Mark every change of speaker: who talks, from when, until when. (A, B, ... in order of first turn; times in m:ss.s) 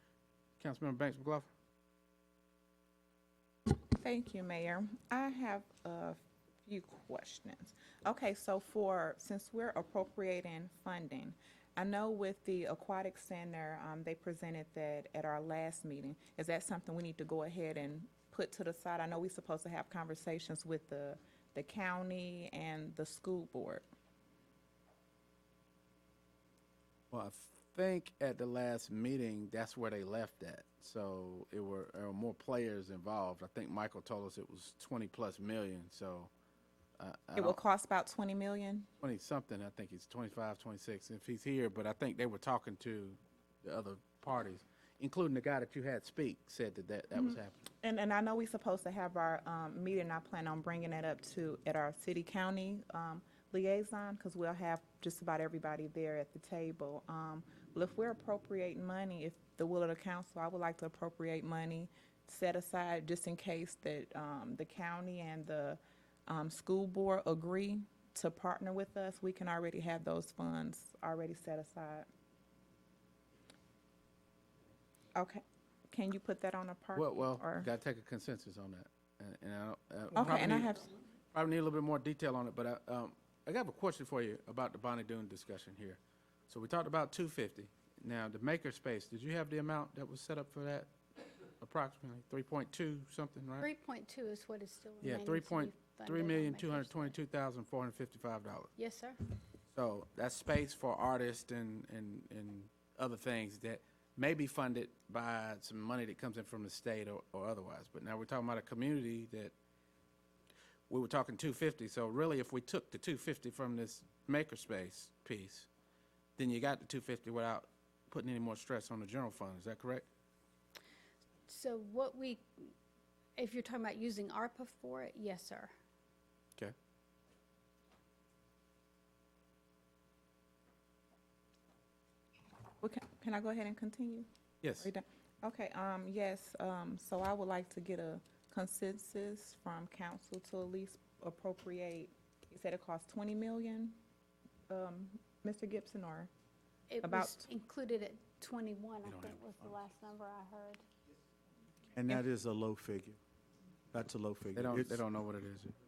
0:00.6-0:01.5 A
0:04.0-0:23.8 B
0:27.1-0:36.3 A
0:37.0-0:37.6 A
0:37.4-0:38.9 B
0:39.0-0:47.6 A
0:47.2-1:12.1 B
1:15.1-1:17.7 B
1:16.9-1:20.7 A
1:20.1-1:20.9 B
1:21.3-1:30.9 A
1:31.6-1:33.7 A
1:33.6-1:37.2 C
1:35.0-1:38.7 A
1:38.8-1:39.2 C
1:39.7-1:49.5 A
1:50.9-1:55.7 A
1:56.4-2:00.0 A
2:01.5-2:02.7 C
2:03.4-2:05.7 C
2:12.8-2:14.3 B
2:14.6-2:14.9 A
2:14.8-2:24.0 B
2:24.7-2:26.3 B
2:26.9-2:30.8 C
2:27.0-2:27.4 B
2:29.0-2:29.4 A
2:31.9-2:33.2 D
2:33.9-2:35.0 D
2:34.6-2:35.7 A